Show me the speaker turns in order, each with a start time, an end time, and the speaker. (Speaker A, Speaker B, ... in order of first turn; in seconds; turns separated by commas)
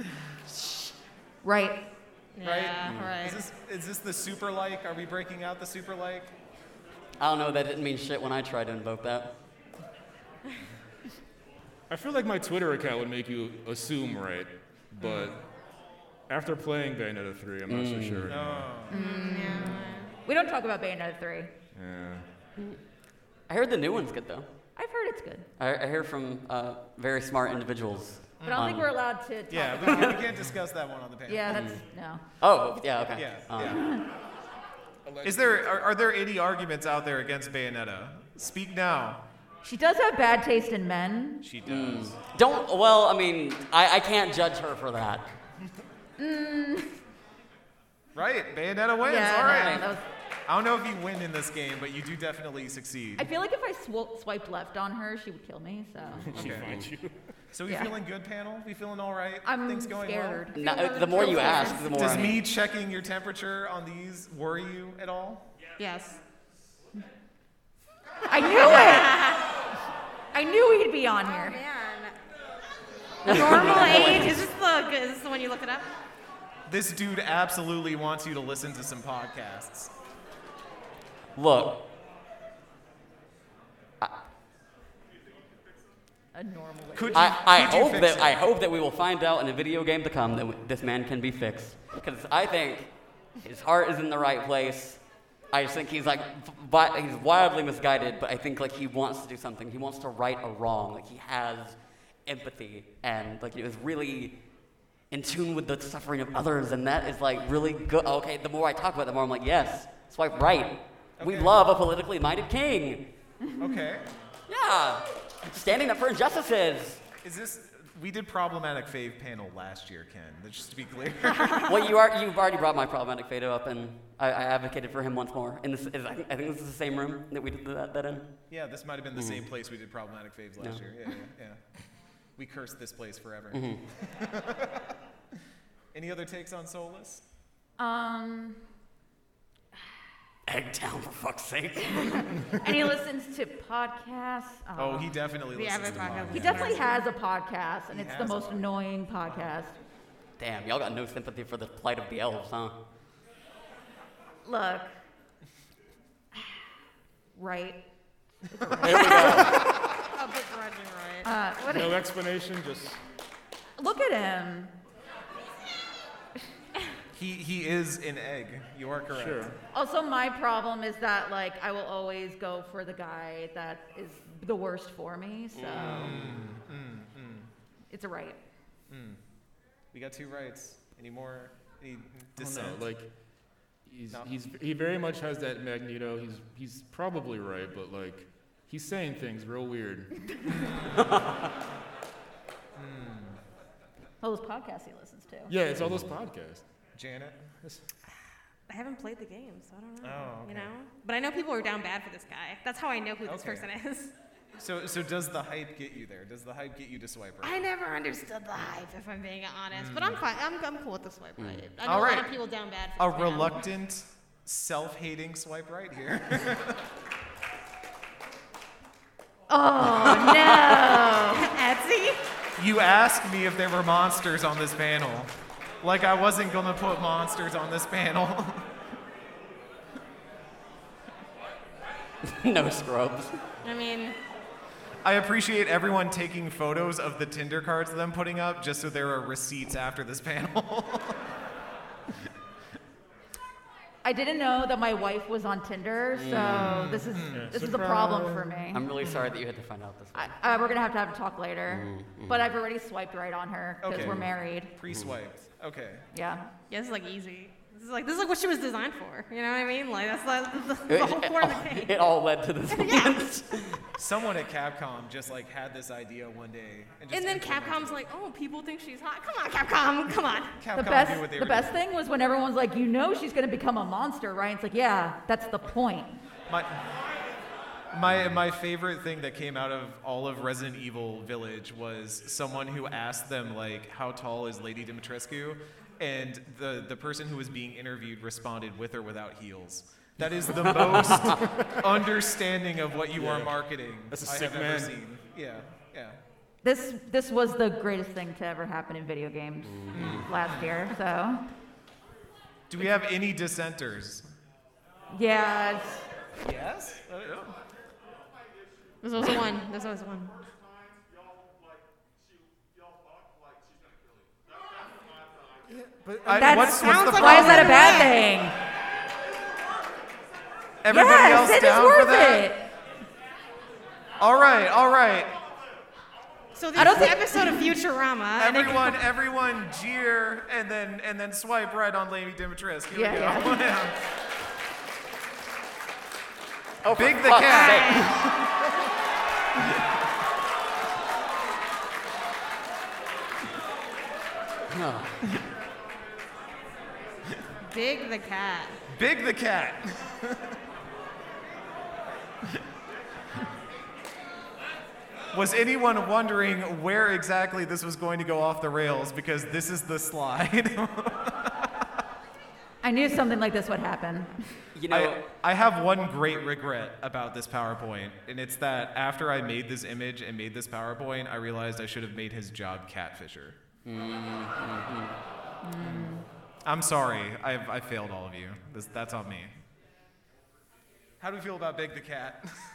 Speaker A: 1.4-1.8, Speaker B: 2.4-3.4, Speaker C: 2.4-6.3, Speaker D: 2.9-3.1, Speaker D: 7.2-9.3, Speaker E: 11.9-15.4, Speaker C: 15.0-15.3, Speaker E: 16.3-18.7, Speaker D: 17.7-18.4, Speaker C: 18.3-19.0, Speaker A: 18.9-21.5, Speaker B: 18.9-20.1, Speaker E: 21.7-22.2, Speaker D: 23.5-24.5, Speaker A: 24.8-25.5, Speaker D: 25.6-28.9, Speaker C: 28.4-28.9, Speaker A: 28.5-30.2, Speaker C: 29.5-31.6, Speaker D: 29.9-30.2, Speaker A: 31.3-32.2, Speaker D: 31.5-31.8, Speaker D: 32.4-33.8, Speaker C: 33.1-33.8, Speaker A: 33.6-34.0, Speaker E: 35.0-35.9, Speaker C: 35.2-39.2, Speaker A: 39.6-41.4, Speaker C: 41.4-42.2, Speaker D: 41.6-45.2, Speaker A: 46.2-46.9, Speaker C: 48.1-49.9, Speaker A: 49.0-50.0, Speaker D: 49.4-49.9, Speaker C: 50.5-53.3, Speaker A: 53.2-56.3, Speaker D: 56.1-56.7, Speaker E: 56.3-57.2, Speaker C: 56.3-56.7, Speaker C: 57.5-60.5, Speaker A: 57.7-57.9, Speaker A: 59.4-62.4, Speaker D: 60.5-62.4, Speaker B: 60.5-62.1, Speaker C: 61.9-65.5, Speaker B: 65.8-66.2, Speaker A: 68.3-69.4, Speaker B: 68.4-69.5, Speaker A: 70.3-71.6, Speaker B: 71.3-72.1, Speaker D: 73.2-74.5, Speaker B: 73.2-75.9, Speaker C: 76.7-79.9, Speaker D: 81.4-81.8, Speaker A: 86.3-87.3, Speaker C: 87.0-88.4, Speaker D: 87.1-92.9, Speaker D: 93.4-95.0, Speaker D: 95.5-104.4, Speaker D: 105.1-113.0, Speaker C: 111.2-111.6, Speaker A: 113.4-113.8, Speaker C: 113.6-114.1, Speaker D: 114.5-117.0, Speaker C: 117.2-121.9, Speaker D: 121.6-128.3, Speaker C: 128.5-131.6, Speaker D: 129.1-129.4, Speaker C: 132.4-134.7, Speaker D: 133.5-133.8, Speaker C: 135.9-137.2, Speaker A: 137.8-138.6, Speaker D: 140.5-142.3, Speaker A: 141.9-145.1, Speaker C: 144.8-146.9, Speaker B: 145.5-147.0, Speaker A: 146.3-149.7, Speaker C: 147.9-148.7, Speaker C: 149.2-149.5, Speaker D: 150.4-152.8, Speaker A: 154.4-154.9, Speaker A: 157.3-157.8, Speaker A: 158.5-159.2, Speaker D: 158.8-159.7, Speaker B: 159.0-161.3, Speaker A: 161.2-162.0, Speaker E: 161.6-163.0, Speaker A: 163.8-164.7, Speaker C: 167.1-169.6, Speaker E: 169.1-169.5, Speaker A: 169.7-176.2, Speaker D: 175.5-176.4, Speaker C: 175.8-177.5, Speaker A: 177.9-178.4, Speaker C: 178.9-179.2, Speaker C: 179.9-182.8, Speaker E: 182.4-183.1, Speaker E: 183.9-190.1, Speaker C: 190.5-191.1, Speaker D: 191.0-191.5, Speaker C: 192.8-193.4, Speaker A: 194.2-195.5, Speaker E: 195.5-196.6, Speaker C: 196.9-197.4, Speaker B: 198.7-204.1, Speaker C: 200.0-200.7, Speaker C: 203.3-203.7, Speaker C: 204.6-207.6, Speaker B: 207.4-213.6, Speaker C: 209.7-210.2, Speaker D: 211.4-211.7, Speaker C: 211.8-212.3, Speaker C: 213.0-216.8, Speaker A: 219.5-221.5, Speaker D: 220.0-220.8, Speaker B: 221.3-222.2, Speaker C: 222.6-228.6, Speaker D: 232.2-233.4, Speaker B: 233.6-234.2, Speaker C: 235.0-241.2, Speaker A: 244.0-248.9, Speaker D: 246.1-247.0, Speaker C: 246.4-247.5, Speaker E: 247.3-248.6, Speaker D: 248.7-250.3, Speaker C: 249.0-249.3, Speaker A: 250.1-254.7, Speaker D: 251.7-252.5, Speaker C: 253.8-256.1, Speaker D: 254.0-254.2, Speaker D: 254.9-255.1, Speaker A: 256.1-256.5, Speaker B: 256.7-262.0, Speaker D: 260.9-263.8, Speaker B: 262.7-263.3, Speaker C: 264.0-268.0, Speaker B: 267.1-270.6, Speaker C: 270.6-271.8, Speaker A: 270.7-276.2, Speaker C: 276.5-276.9, Speaker C: 277.9-296.2, Speaker E: 290.6-291.8, Speaker D: 290.7-291.4, Speaker E: 293.1-293.6, Speaker E: 294.1-294.9, Speaker A: 296.6-301.4, Speaker D: 299.7-300.2, Speaker C: 299.9-300.9, Speaker C: 302.7-304.2, Speaker A: 305.1-306.1, Speaker C: 306.4-307.6, Speaker B: 309.0-310.3, Speaker E: 315.7-317.0, Speaker C: 316.2-318.1, Speaker A: 316.4-318.6, Speaker B: 316.5-318.2, Speaker C: 320.8-322.5, Speaker A: 320.9-322.7, Speaker C: 324.2-325.3, Speaker B: 326.6-329.0, Speaker A: 326.8-327.7, Speaker C: 328.4-334.0, Speaker A: 332.9-333.6, Speaker D: 336.8-338.2, Speaker C: 336.9-338.5, Speaker B: 337.4-338.1, Speaker D: 344.7-345.3, Speaker B: 347.6-348.8, Speaker C: 348.9-350.6, Speaker C: 355.3-361.6, Speaker A: 362.8-364.4, Speaker D: 364.7-365.2, Speaker C: 364.9-373.6, Speaker D: 373.9-375.1, Speaker A: 375.6-376.2, Speaker C: 375.8-379.5, Speaker C: 381.2-382.5